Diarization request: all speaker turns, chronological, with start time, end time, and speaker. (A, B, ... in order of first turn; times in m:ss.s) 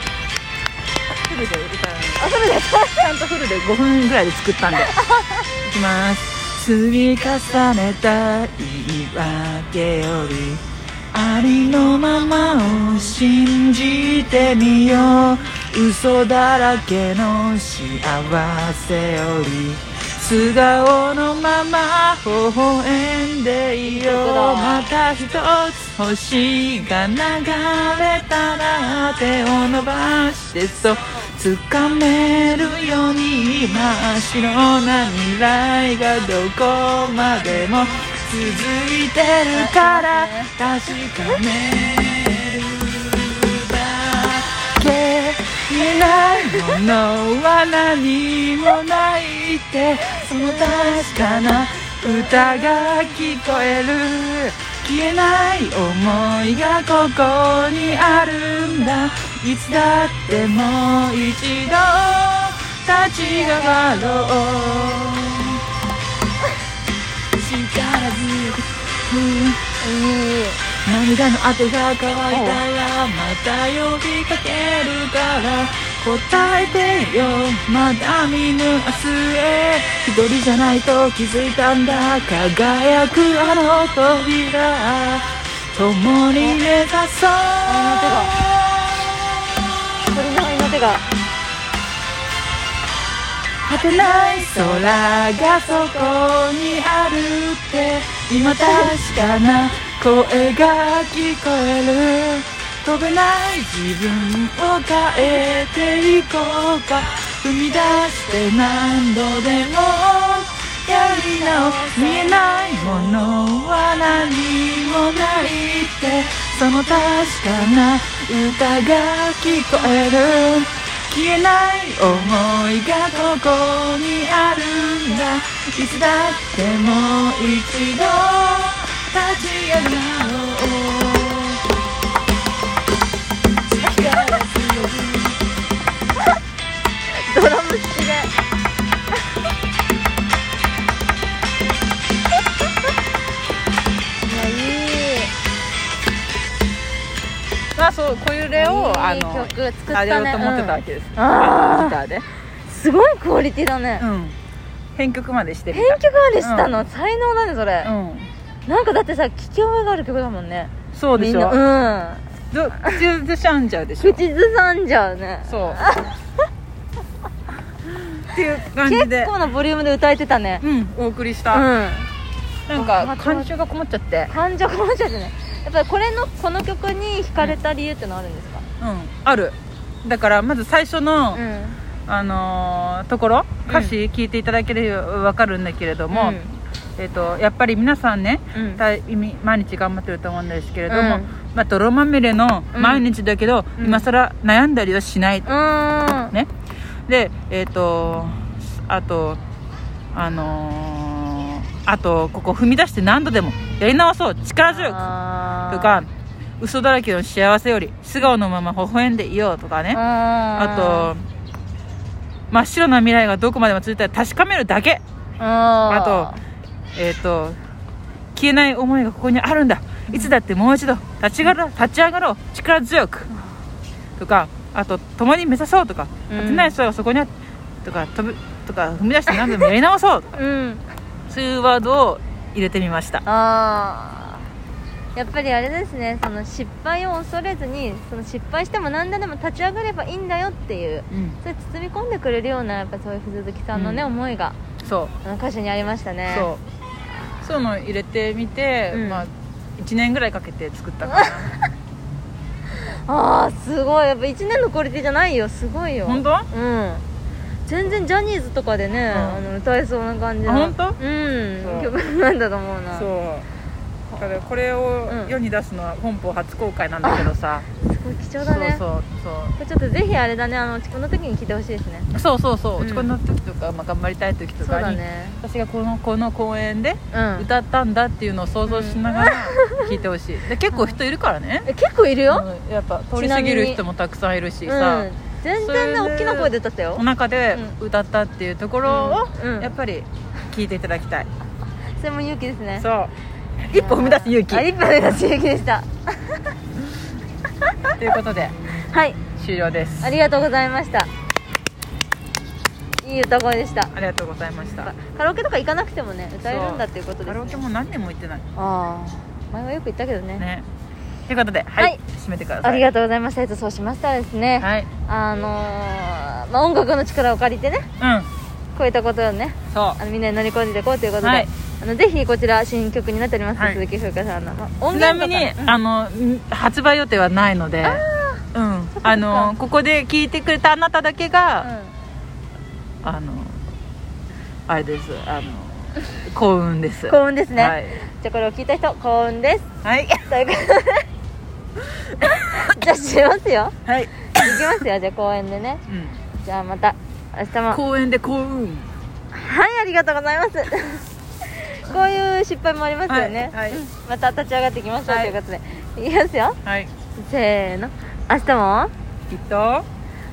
0:01.2-0:04.9 A
0:02.2-0:03.0 B
0:04.8-0:05.4 B
0:05.6-1:05.6 A
0:23.9-0:24.9 B
0:39.5-0:40.5 B
0:50.4-0:51.4 B
0:52.0-0:52.9 B
1:07.3-1:09.6 A
1:09.8-1:10.6 B
1:10.8-1:29.1 A
1:12.3-1:12.6 B
1:27.7-1:28.4 B
1:30.1-1:31.0 B
1:33.6-2:11.6 A
1:51.0-1:53.2 B
2:13.8-2:15.4 A
2:13.8-2:14.5 B
2:17.2-2:18.3 B
2:24.2-2:25.3 B
2:27.8-2:32.2 A
2:28.6-2:32.0 B
2:32.7-2:34.0 B
2:34.0-2:34.4 A
2:35.0-2:36.8 A
2:35.7-2:37.9 B
2:37.8-2:38.3 A
2:38.7-2:42.2 B
2:40.9-2:41.6 A
2:42.5-2:44.2 A
2:44.0-2:46.2 B
2:45.5-2:45.9 A
2:48.1-2:49.3 A
2:48.3-2:50.6 B
2:50.6-2:51.7 A
2:51.5-2:52.1 B
2:52.7-2:54.3 A
2:52.8-2:53.5 B
2:54.3-2:58.7 B
2:58.8-3:01.4 A
3:01.3-3:01.8 B
3:02.1-3:06.4 A
3:03.7-3:03.9 B
3:06.1-3:06.6 B
3:07.0-3:15.5 A
3:08.6-3:08.8 B
3:10.9-3:11.4 B
3:12.8-3:13.1 B
3:13.8-3:14.1 B
3:15.5-3:16.3 B
3:17.1-3:19.4 A
3:20.1-3:25.0 A
3:24.7-3:26.0 B
3:25.7-3:30.0 A
3:29.9-3:31.1 B
3:30.5-3:31.2 A
3:32.5-3:35.0 A
3:35.4-3:36.4 B
3:35.9-3:36.3 A
3:37.0-3:37.6 A
3:38.4-3:43.3 A
3:44.2-3:47.3 A
3:46.3-3:46.8 B
3:47.8-3:50.4 A
3:50.3-3:50.8 B
3:51.3-3:53.2 A
3:53.2-3:54.5 B
3:55.2-4:04.6 B
4:01.1-4:01.4 A
4:03.7-4:04.1 A
4:04.8-4:05.1 A
4:05.2-4:06.5 B
4:06.3-4:06.6 A
4:07.4-4:11.5 A
4:08.9-4:09.3 B
4:11.1-4:11.5 B
4:12.7-4:17.0 B
4:16.0-4:16.5 A
4:17.7-4:23.1 B
4:19.1-4:19.5 A
4:20.5-4:21.0 A
4:21.6-4:21.9 A
4:22.9-4:23.5 A
4:24.2-4:27.7 A
4:25.1-4:25.3 B
4:27.0-4:27.3 B
4:27.8-4:28.8 B
4:28.4-4:29.6 A
4:29.6-4:32.1 B
4:32.1-4:41.7 A
4:32.8-4:33.1 B
4:34.6-4:35.4 B
4:37.1-4:37.5 B
4:38.7-4:39.8 B
4:40.7-4:41.0 B
4:41.7-4:42.5 B
4:42.3-4:51.3 A
4:43.2-4:43.8 B
4:44.6-4:47.0 B
4:48.8-4:49.7 B
4:52.0-4:52.9 B
4:52.8-4:53.1 A
4:53.6-4:54.7 A
4:53.7-4:56.5 B
4:58.0-4:58.6 A
4:58.9-4:59.2 B
4:59.4-5:00.2 A
5:00.0-5:01.1 B
5:03.0-5:03.9 B
5:03.9-5:04.9 A
5:04.8-5:07.6 B
5:06.4-5:08.5 A
5:08.6-5:10.4 B
5:10.4-5:10.6 A
5:11.3-5:12.8 A
5:12.6-5:17.9 B
5:14.6-5:14.9 A
5:18.0-5:18.3 A
5:18.8-5:25.8 B
5:19.7-5:20.0 A
5:21.2-5:21.5 A
5:23.6-5:23.8 A
5:24.9-5:31.7 A
5:27.8-5:28.4 B
5:29.0-5:29.5 B
5:31.6-5:31.9 B
5:33.0-5:33.6 A
5:34.7-5:38.0 A
5:37.1-5:39.7 B
5:39.8-5:40.2 A
5:40.2-5:41.1 B
5:42.2-5:42.7 A
5:42.2-5:43.8 B
5:43.9-5:44.8 A
5:44.3-5:45.8 B
5:45.9-5:46.2 A
5:46.4-5:47.8 B
5:47.7-5:48.9 A
5:49.3-5:56.6 B
5:53.1-5:53.8 A
5:55.1-5:55.4 A
5:56.6-5:56.9 A
5:57.2-5:58.9 B
5:59.3-5:59.8 A